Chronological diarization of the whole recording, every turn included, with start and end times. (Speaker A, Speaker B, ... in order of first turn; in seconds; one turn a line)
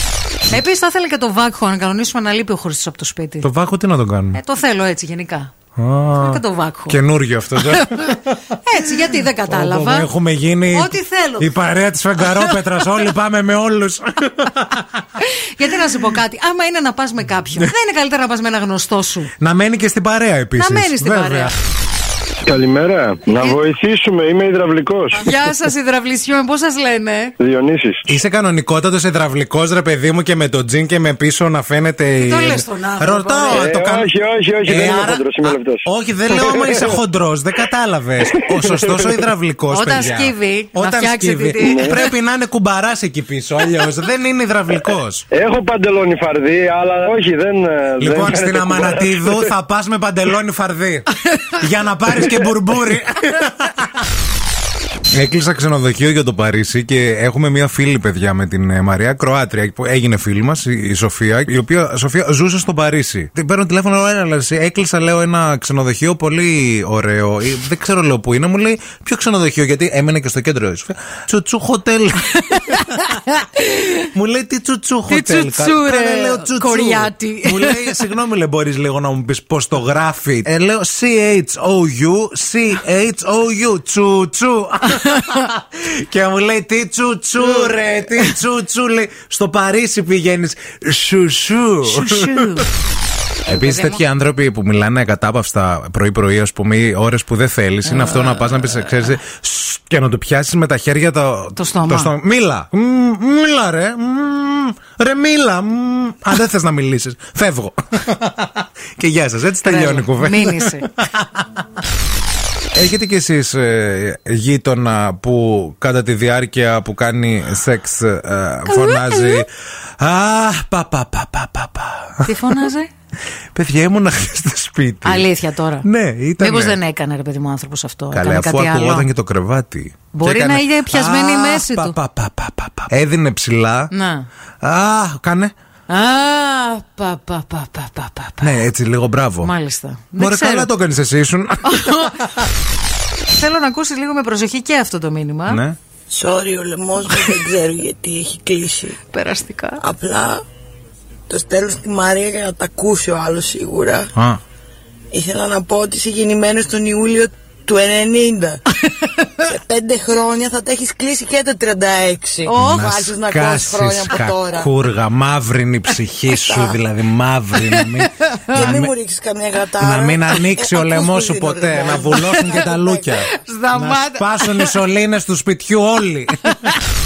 Speaker A: 0.5-3.5
Speaker B: 3.4-4.4
Speaker A: 4.3-5.5
Speaker B: 5.8-15.0
Speaker A: 6.2-7.0
Speaker A: 7.7-10.1
Speaker A: 10.7-11.5
Speaker A: 15.2-19.3
Speaker B: 19.4-21.5
Speaker A: 20.6-21.5
Speaker C: 22.5-25.1
Speaker A: 25.1-27.3
Speaker C: 27.4-28.0
Speaker B: 28.1-34.1
Speaker A: 32.2-33.7
Speaker C: 33.6-35.8
Speaker B: 34.6-45.2
Speaker A: 39.7-42.0
Speaker C: 45.4-48.9
Speaker B: 48.0-53.7
Speaker B: 55.1-73.1
Speaker A: 72.4-74.1
Speaker B: 74.1-92.7
Speaker A: 75.1-78.0
Speaker A: 87.4-87.7
Speaker A: 91.9-92.7
Speaker A: 93.5-94.0
Speaker B: 93.5-111.4
Speaker A: 97.9-99.1
Speaker A: 101.6-102.1
Speaker A: 109.7-110.9
Speaker B: 112.7-122.7
Speaker A: 118.7-119.5
Speaker A: 122.2-122.9
Speaker B: 123.5-125.3
Speaker A: 125.0-125.9
Speaker B: 125.8-126.8
Speaker A: 126.4-129.1
Speaker B: 128.1-133.9
Speaker A: 130.1-131.9
Speaker A: 133.9-134.3
Speaker B: 134.6-135.5
Speaker A: 135.9-138.5
Speaker B: 138.4-139.5
Speaker A: 139.4-140.7
Speaker B: 140.2-142.4
Speaker A: 141.7-142.2
Speaker A: 143.3-145.6
Speaker B: 145.5-145.8
Speaker D: 146.1-149.0
Speaker A: 149.1-149.8
Speaker D: 149.8-150.4
Speaker D: 151.3-154.1
Speaker B: 154.2-154.4
Speaker D: 155.1-158.6
Speaker A: 158.8-159.4
Speaker D: 159.5-164.7
Speaker A: 162.4-163.1
Speaker B: 162.6-168.9
Speaker D: 166.3-166.8
Speaker A: 167.6-168.8
Speaker D: 168.5-173.1
Speaker B: 169.8-176.6
Speaker A: 173.3-174.8
Speaker A: 176.5-176.7